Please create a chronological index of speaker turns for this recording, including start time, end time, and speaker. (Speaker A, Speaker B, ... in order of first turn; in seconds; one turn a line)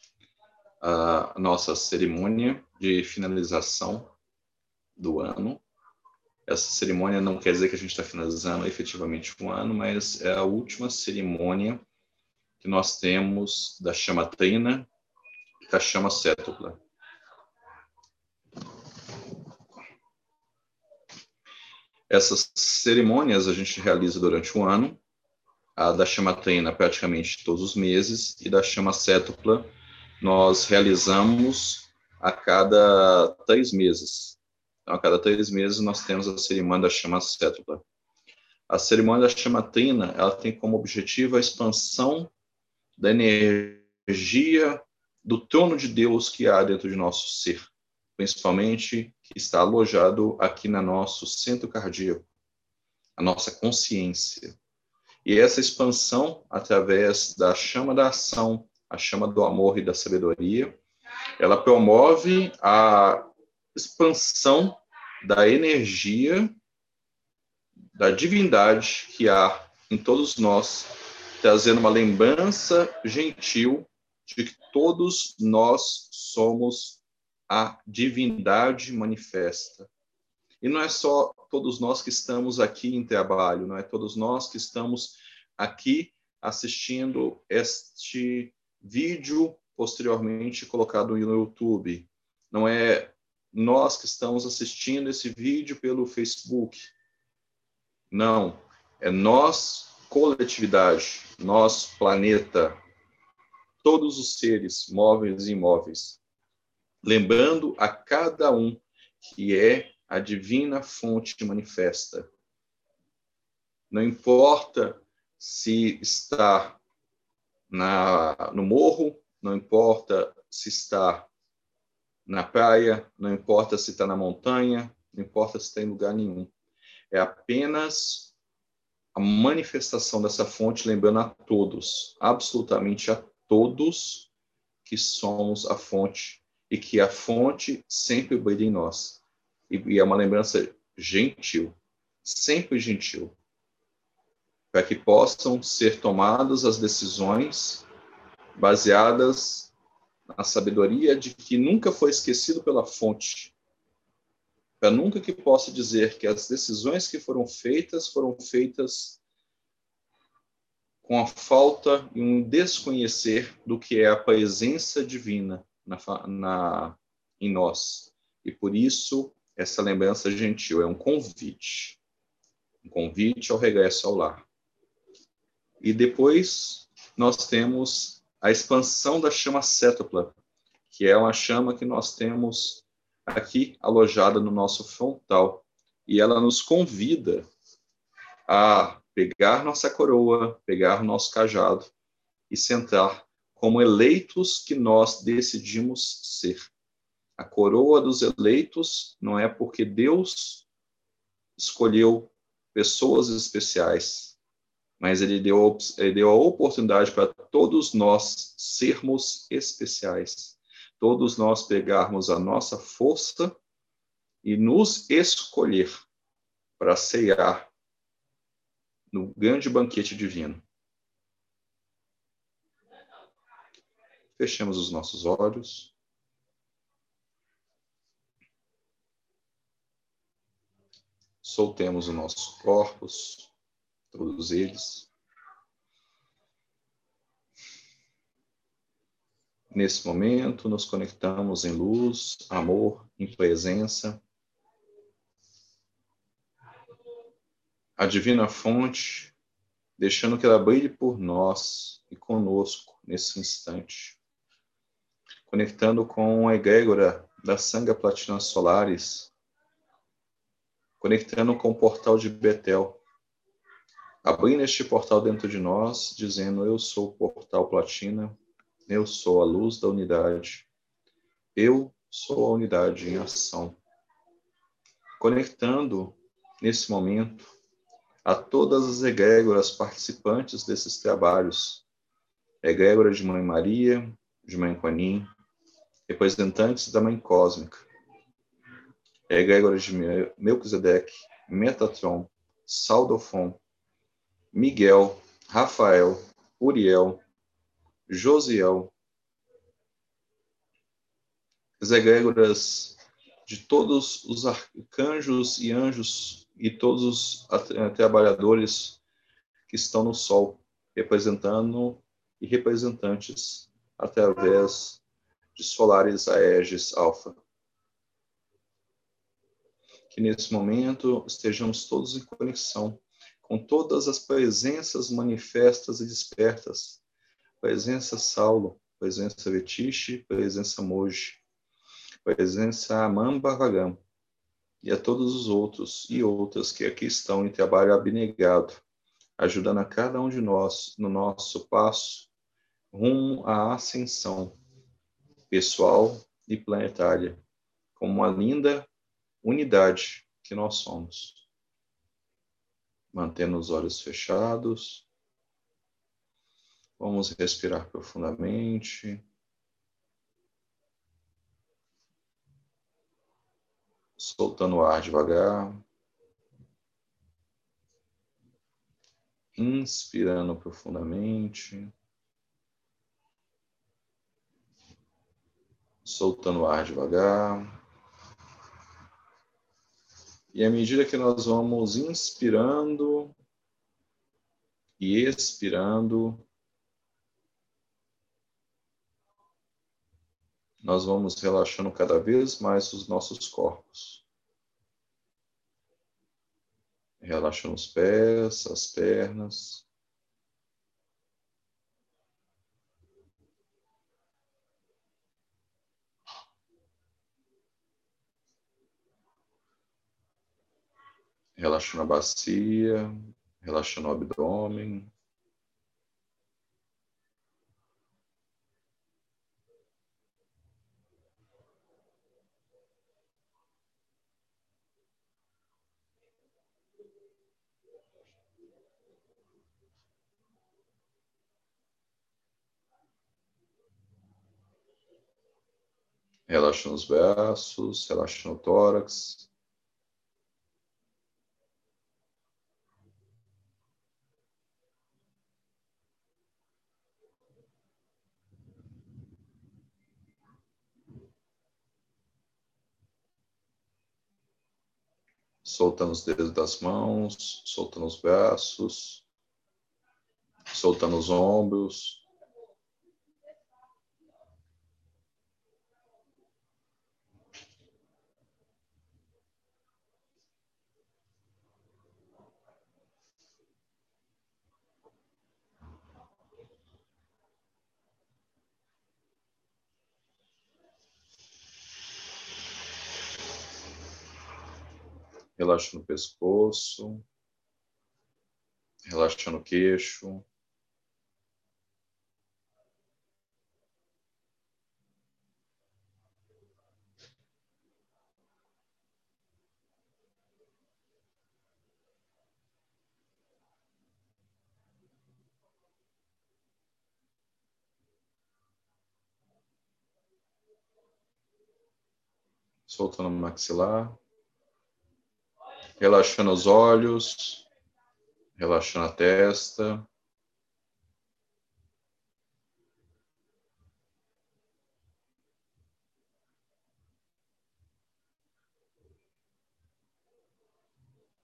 Speaker A: 0.8-4.1
Speaker A: 5.0-5.6
Speaker A: 6.5-11.8
Speaker A: 12.6-14.9
Speaker A: 15.7-16.8
Speaker A: 22.1-25.0
Speaker A: 25.8-37.8
Speaker A: 38.7-42.3
Speaker A: 43.0-52.3
Speaker A: 53.2-54.6
Speaker A: 55.2-60.8
Speaker A: 61.4-66.6
Speaker A: 68.0-79.9
Speaker A: 80.6-96.9
Speaker A: 98.1-102.8
Speaker A: 103.8-106.2
Speaker A: 107.0-112.3
Speaker A: 113.9-116.8
Speaker A: 117.7-121.3
Speaker A: 122.3-126.5
Speaker A: 127.1-128.3
Speaker A: 129.2-134.3
Speaker A: 134.8-143.4
Speaker A: 144.7-147.9
Speaker A: 148.6-149.7
Speaker A: 150.3-153.5
Speaker A: 154.8-159.2
Speaker A: 161.0-172.0
Speaker A: 172.8-174.5
Speaker A: 175.8-180.4
Speaker A: 180.9-187.5
Speaker A: 188.5-191.9
Speaker A: 192.5-196.7
Speaker A: 197.4-200.7
Speaker A: 201.6-204.4
Speaker A: 205.0-213.6
Speaker A: 214.4-216.0
Speaker A: 216.8-217.7
Speaker A: 219.1-220.6
Speaker A: 224.3-225.9
Speaker A: 231.4-233.5
Speaker A: 234.1-235.1
Speaker A: 239.7-244.2
Speaker A: 248.0-249.3
Speaker A: 250.0-254.2
Speaker A: 255.5-259.3
Speaker A: 261.0-263.0
Speaker A: 264.2-270.7
Speaker A: 271.6-273.8
Speaker A: 275.2-277.5
Speaker A: 278.2-281.9
Speaker A: 282.6-285.3
Speaker A: 286.1-287.9
Speaker A: 289.3-293.6
Speaker A: 294.5-297.2
Speaker A: 298.1-298.9
Speaker A: 301.8-309.0
Speaker A: 309.7-315.0
Speaker A: 315.6-317.4
Speaker A: 320.1-327.0
Speaker A: 327.6-331.4
Speaker A: 332.2-334.0
Speaker A: 334.8-338.8
Speaker A: 339.4-342.3
Speaker A: 342.9-344.6
Speaker A: 345.5-347.4
Speaker A: 347.9-348.9
Speaker A: 349.4-351.5
Speaker A: 353.1-355.1
Speaker A: 357.0-359.2
Speaker A: 364.2-365.9
Speaker A: 369.6-371.9
Speaker A: 376.0-377.8
Speaker A: 380.5-383.4
Speaker A: 385.0-386.4
Speaker A: 390.8-394.2
Speaker A: 397.2-399.9
Speaker A: 411.6-415.1
Speaker A: 436.5-439.5
Speaker A: 455.6-459.3
Speaker A: 460.7-462.2
Speaker A: 485.6-487.2
Speaker A: 489.1-490.5
Speaker A: 512.9-514.2
Speaker A: 516.0-517.7
Speaker A: 518.6-520.1